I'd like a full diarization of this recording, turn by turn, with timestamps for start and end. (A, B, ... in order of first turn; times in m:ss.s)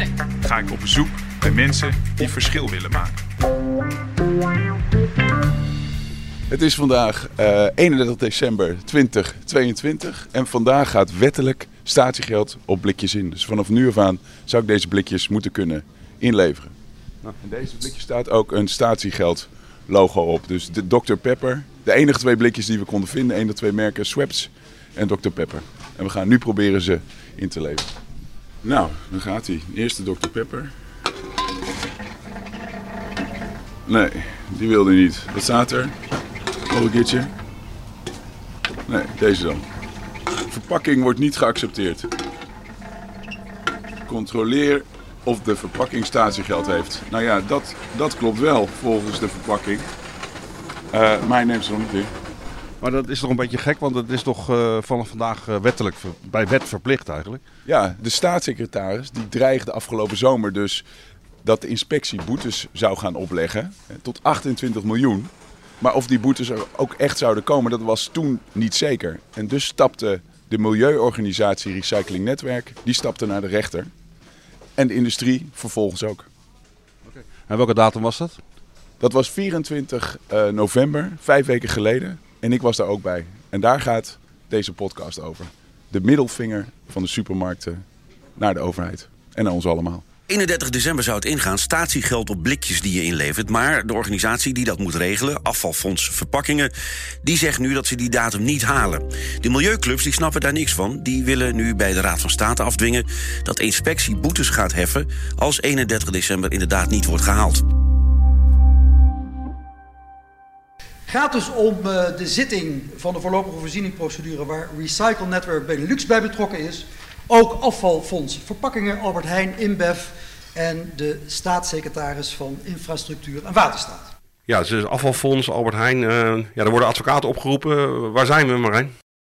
0:00.4-0:03.2 A
0:06.5-0:16.7 B
0:17.4-0:27.9 B
0:28.6-0:30.7 B
0:33.8-0:35.9 B
0:36.7-0:37.3 B
0:38.9-0:39.6 B
0:40.5-0:42.1 B
0:44.1-0:49.9 B
0:50.9-0:52.1 B
0:52.8-0:57.4 C
0:57.6-1:00.8 B
1:01.4-1:13.9 B
1:14.8-1:16.3 B
1:17.1-1:18.4 C
1:19.0-1:27.8 B
1:28.4-1:30.1 B
1:30.3-1:36.7 D
1:37.2-1:47.6 D
1:51.1-2:04.1 E
2:04.5-2:08.9 F